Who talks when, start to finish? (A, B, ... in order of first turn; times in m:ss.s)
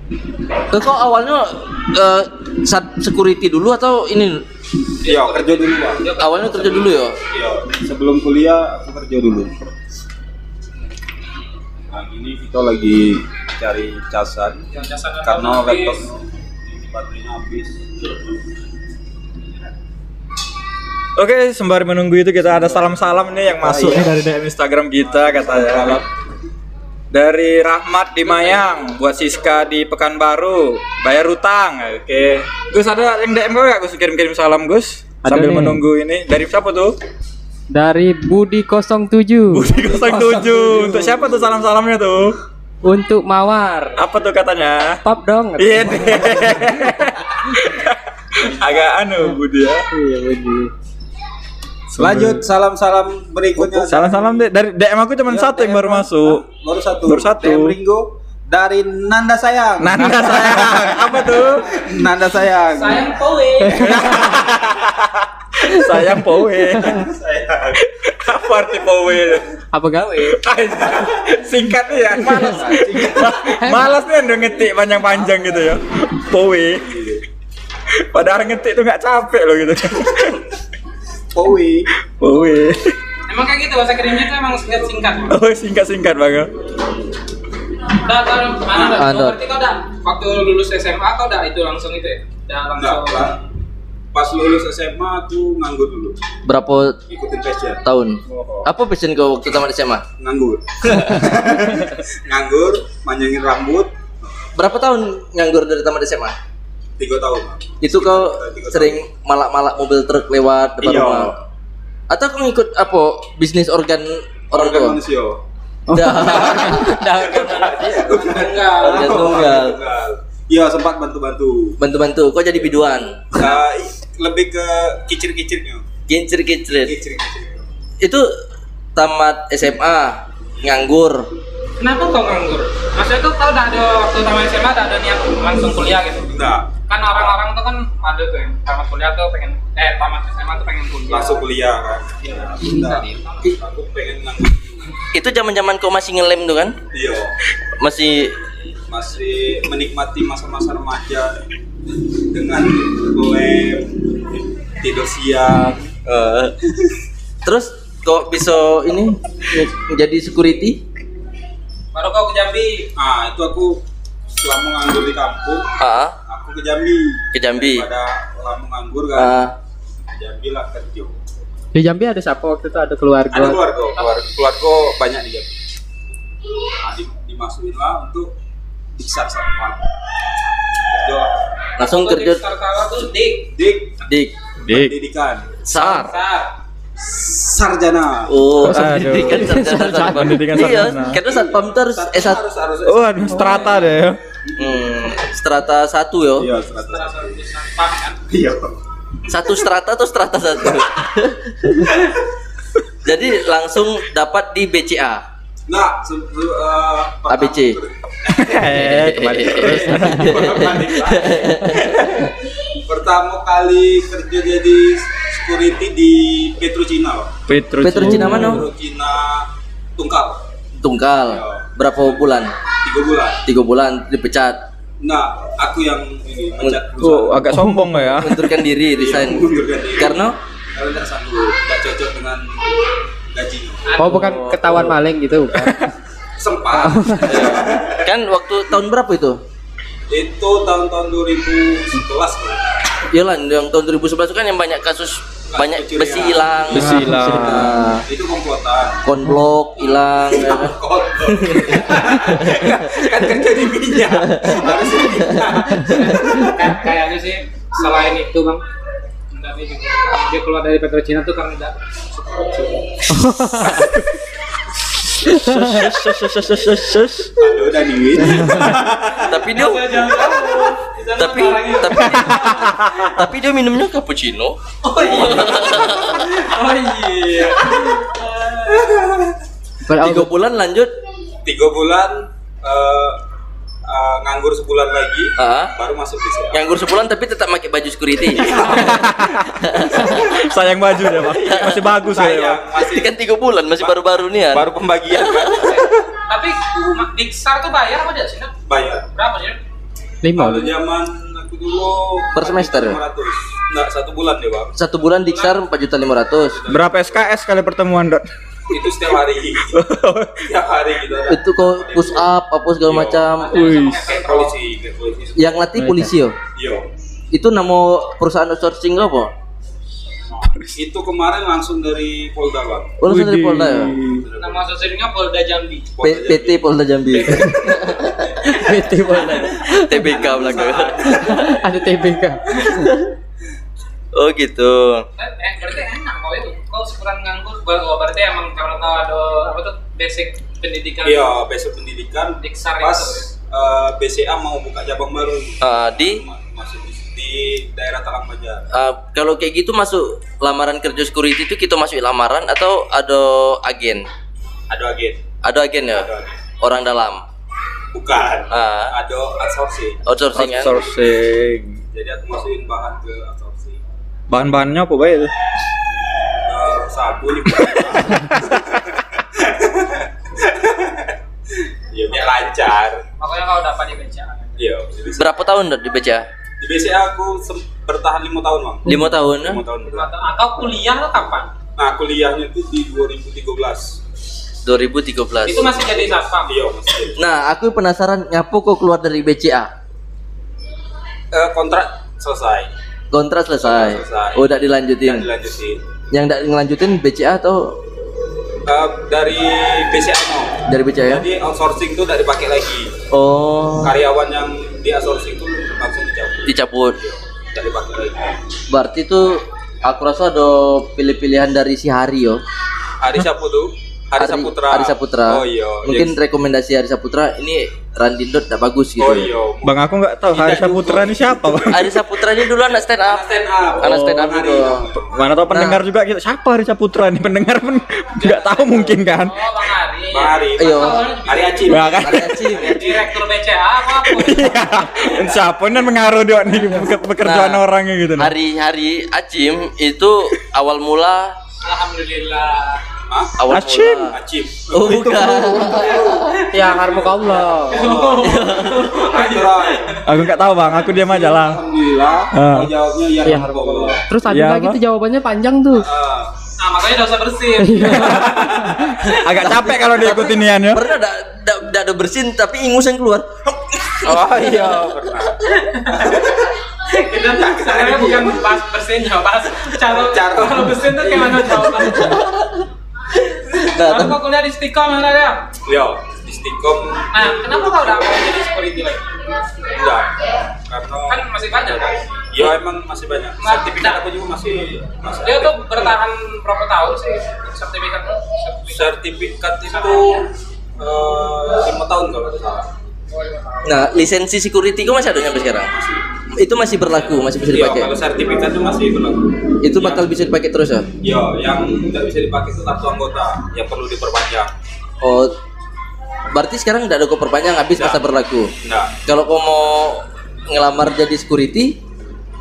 0:00.7-0:04.4 A
0:05.0-0:07.0 B
0:05.0-0:06.0 C
0:06.2-0:07.2 A
0:07.3-0:09.5 C
0:11.9-0:14.6 C
0:14.7-0:16.1 B
0:15.2-0:18.0 C
0:21.2-0:26.0 D
0:23.6-0:24.1 C
0:25.0-0:26.0 C
0:27.1-0:37.0 D
0:35.2-0:35.8 E
0:37.7-0:41.1 E
0:39.5-0:42.4 D
0:42.8-0:44.0 E
0:44.0-0:45.0 D
0:45.0-0:46.5 E
0:45.6-0:49.9 D
0:48.4-0:49.0 C
0:49.9-0:50.7 E
0:52.0-0:52.4 D
0:52.0-0:54.5 C
0:53.6-0:56.4 D
0:55.3-1:01.0 C
0:57.1-0:57.8 D
0:59.8-1:01.7 D
1:01.6-1:03.1 C
1:02.7-1:04.0 B
1:03.7-1:07.0 D
1:03.8-1:04.2 E
1:06.8-1:07.8 C
1:07.8-1:09.5 D
1:09.7-1:10.4 E
1:10.2-1:16.9 D
1:12.1-1:13.6 C
1:16.8-1:17.2 C
1:18.1-1:20.4 D
1:21.3-1:21.9 C
1:22.2-1:22.9 D
1:23.3-1:25.4 B
1:25.3-1:26.5 D
1:28.0-1:33.3 B
1:28.9-1:29.4 A
1:32.7-1:33.4 C
1:34.1-1:36.2 C
1:36.4-1:37.0 A
1:37.1-1:38.7 C
1:37.8-1:40.0 A
1:40.2-1:43.9 C
1:44.5-1:46.4 A
1:47.0-1:49.0 C
1:47.8-1:51.3 A
1:50.8-1:51.4 C
1:52.1-1:55.0 A
1:54.5-1:55.4 C
1:55.9-1:57.3 E
1:55.9-1:57.9 A
1:56.2-1:59.6 B
1:56.2-2:01.8 C
1:58.6-1:59.8 A
2:01.8-2:03.4 A
2:03.3-2:05.8 C
2:06.1-2:06.9 A
2:06.7-2:07.6 C
2:08.0-2:08.3 A
2:09.0-2:11.3 A
2:11.8-2:16.3 B
2:16.3-2:16.7 C
2:16.9-2:21.4 B
2:21.1-2:25.0 C
2:22.2-2:23.4 B
2:22.7-2:23.0 E
2:25.1-2:26.8 A
2:26.9-2:27.3 C
2:27.8-2:28.4 A
2:28.9-2:31.4 C
2:32.2-2:36.0 C
2:36.0-2:36.5 A
2:37.4-2:40.8 A
2:41.9-2:42.9 B
2:43.0-2:43.8 C
2:44.4-2:45.7 C
2:45.8-2:46.2 A
2:46.2-2:49.5 C
2:47.3-2:47.9 A
2:49.1-2:49.5 A
2:50.0-2:51.1 C
2:51.7-2:53.6 E
2:53.3-2:55.5 C
2:56.8-2:58.3 C
2:59.0-2:59.9 C
3:00.8-3:01.3 C
3:01.8-3:02.4 A
3:01.8-3:03.5 B
3:03.5-3:04.0 C
3:04.0-3:04.3 A
3:04.6-3:05.0 D
3:04.7-3:05.5 C
3:05.6-3:06.1 A
3:05.7-3:06.1 D
3:05.8-3:06.5 B
3:07.0-3:08.4 C
3:08.3-3:12.4 A
3:08.6-3:11.2 D
3:09.4-3:10.4 E
3:11.2-3:13.8 C
3:12.8-3:14.2 D
3:14.5-3:14.8 C
3:14.6-3:16.5 A
3:16.4-3:17.3 C
3:16.8-3:18.2 B
3:18.3-3:18.8 C
3:19.3-3:22.0 A
3:23.0-3:25.2 A
3:25.7-3:28.7 C
3:27.3-3:27.8 A
3:28.3-3:30.6 D
3:28.7-3:32.2 A
3:29.4-3:37.3 C
3:37.5-3:38.6 D
3:37.8-3:38.7 A
3:38.0-3:40.4 C
3:40.8-3:42.5 A
3:41.2-3:42.2 C
3:42.8-3:43.4 C
3:43.4-3:44.6 A
3:45.0-3:47.6 C
3:47.0-3:48.6 D
3:48.2-3:50.4 A
3:48.8-3:52.7 C
3:53.3-3:53.9 C
3:53.8-3:54.4 B
3:54.0-3:55.9 E
3:54.0-3:54.9 A
3:56.4-3:58.0 C
3:56.7-3:57.4 E
3:57.2-3:59.4 A
4:00.1-4:02.9 C
4:03.1-4:08.0 A
4:05.5-4:09.0 C
4:06.7-4:07.8 D
4:09.0-4:10.8 A
4:10.3-4:16.7 C
4:11.3-4:13.4 A
4:14.1-4:16.1 A
4:15.8-4:18.6 B
4:19.3-4:23.2 B
4:23.1-4:23.9 E
4:25.3-4:27.3 D
4:25.6-4:26.2 A
4:27.4-4:29.4 C
4:28.3-4:28.7 E
4:29.2-4:33.0 B
4:29.2-4:30.3 A
4:31.2-4:36.3 A
4:32.4-4:32.9 D
4:34.8-4:39.0 B
4:39.8-4:40.3 E
4:40.0-4:40.9 A
4:41.4-4:43.2 C
4:43.8-4:46.6 C
4:45.4-4:45.7 A
4:46.5-4:50.4 A
4:48.3-4:48.9 C
4:48.7-4:52.6 D
4:51.2-4:52.0 A
4:52.0-4:53.1 C
4:52.8-4:55.9 A
4:53.8-4:55.9 C
4:55.5-4:58.5 B
4:58.7-4:59.1 C
4:59.1-4:59.6 B
5:00.2-5:00.7 E
5:00.3-5:04.7 C
5:02.3-5:03.0 A
5:04.7-5:06.6 A
5:05.2-5:05.6 B
5:06.5-5:07.2 C
5:06.7-5:08.2 D
5:08.7-5:09.9 C
5:09.7-5:10.4 D
5:10.4-5:12.3 C
5:11.3-5:13.6 A
5:12.8-5:13.4 C
5:13.3-5:14.6 B
5:13.5-5:14.1 D
5:14.0-5:15.6 C
5:15.4-5:16.4 A
5:15.8-5:16.1 E
5:16.5-5:16.9 C
5:17.3-5:19.3 A
5:20.5-5:20.8 D
5:20.8-5:23.0 C
5:23.0-5:24.0 A
5:23.0-5:24.3 D
5:24.4-5:25.9 B
5:26.0-5:26.6 C
5:26.0-5:28.5 A
5:27.2-5:28.8 C
5:28.4-5:30.1 E
5:29.6-5:31.6 A
5:30.0-5:31.8 C
5:31.1-5:33.0 E
5:34.1-5:35.0 A
5:35.2-5:41.3 B
5:41.0-5:48.6 C
5:42.4-5:43.3 B
5:45.6-5:46.2 A
5:48.7-5:54.1 A
5:54.7-5:55.2 C
5:55.4-5:56.1 A
5:55.9-5:56.4 C
5:56.6-5:57.2 A
5:57.9-6:00.0 C
5:58.5-5:58.9 A
6:00.0-6:00.8 A
6:00.3-6:01.8 D
6:01.9-6:03.8 C
6:04.3-6:05.3 D
6:06.4-6:08.6 C
6:08.2-6:08.5 D
6:09.2-6:11.2 C
6:11.9-6:13.0 C
6:13.2-6:14.6 B
6:14.6-6:15.3 C
6:15.2-6:16.3 A
6:16.6-6:20.1 C
6:18.8-6:19.6 A
6:19.9-6:21.5 B
6:21.8-6:24.0 C
6:24.6-6:25.8 A
6:25.4-6:26.5 B
6:25.5-6:27.2 C
6:27.2-6:29.7 A
6:31.3-6:32.7 C
6:33.1-6:35.3 A
6:33.6-6:35.8 C
6:36.1-6:37.8 A
6:38.6-6:43.0 C
6:40.7-6:41.3 A
6:43.1-6:44.0 A
6:43.8-6:48.4 C
6:46.5-6:47.0 A
6:48.7-6:52.4 A
6:53.0-6:56.1 C
6:54.2-6:59.3 A
6:59.0-7:02.0 C
6:59.6-7:02.0 D
7:01.7-7:03.2 A
7:03.0-7:05.2 C
7:03.8-7:04.9 A
7:05.0-7:09.4 D
7:05.5-7:05.8 A
7:08.2-7:08.9 C
7:09.1-7:15.1 B
7:10.1-7:13.0 C
7:10.6-7:11.0 A
7:11.7-7:12.5 D
7:11.9-7:12.8 A
7:14.0-7:18.3 D
7:17.2-7:17.6 A
7:18.2-7:21.4 A
7:21.6-7:22.8 B
7:23.1-7:23.4 C
7:23.4-7:24.2 A
7:23.5-7:24.1 D
7:24.1-7:34.0 C
7:24.7-7:26.4 A
7:26.3-7:26.8 B
7:26.5-7:27.8 E
7:27.6-7:29.9 B
7:28.2-7:29.0 A
7:30.0-7:31.6 D
7:32.3-7:32.7 D
7:33.2-7:35.8 E
7:34.2-7:34.8 D
7:35.8-7:36.3 C
7:36.6-7:39.1 B
7:37.6-7:38.9 E
7:37.9-7:40.8 D
7:39.0-7:43.3 A
7:44.0-7:45.4 C
7:44.0-7:45.2 A
7:45.5-7:46.2 B
7:45.9-7:46.4 C
7:46.9-7:52.2 B
7:47.3-7:48.4 C
7:49.8-7:51.4 C
7:51.8-7:52.6 A
7:53.4-7:54.2 A
7:53.5-7:55.5 B
7:55.6-7:58.1 C
7:57.1-7:59.2 B
7:59.7-8:05.9 C
8:01.1-8:02.0 B
8:03.4-8:04.0 B
8:05.2-8:08.9 B
8:08.7-8:12.7 C
8:09.7-8:10.0 B
8:13.1-8:13.8 B
8:13.6-8:15.7 A
8:15.7-8:16.0 C
8:16.3-8:17.9 A
8:17.5-8:20.1 C
8:19.6-8:20.9 A
8:21.0-8:24.5 C
8:25.0-8:25.3 A
8:26.3-8:28.5 A
8:27.7-8:28.0 C
8:28.6-8:28.9 C
8:29.0-8:31.8 A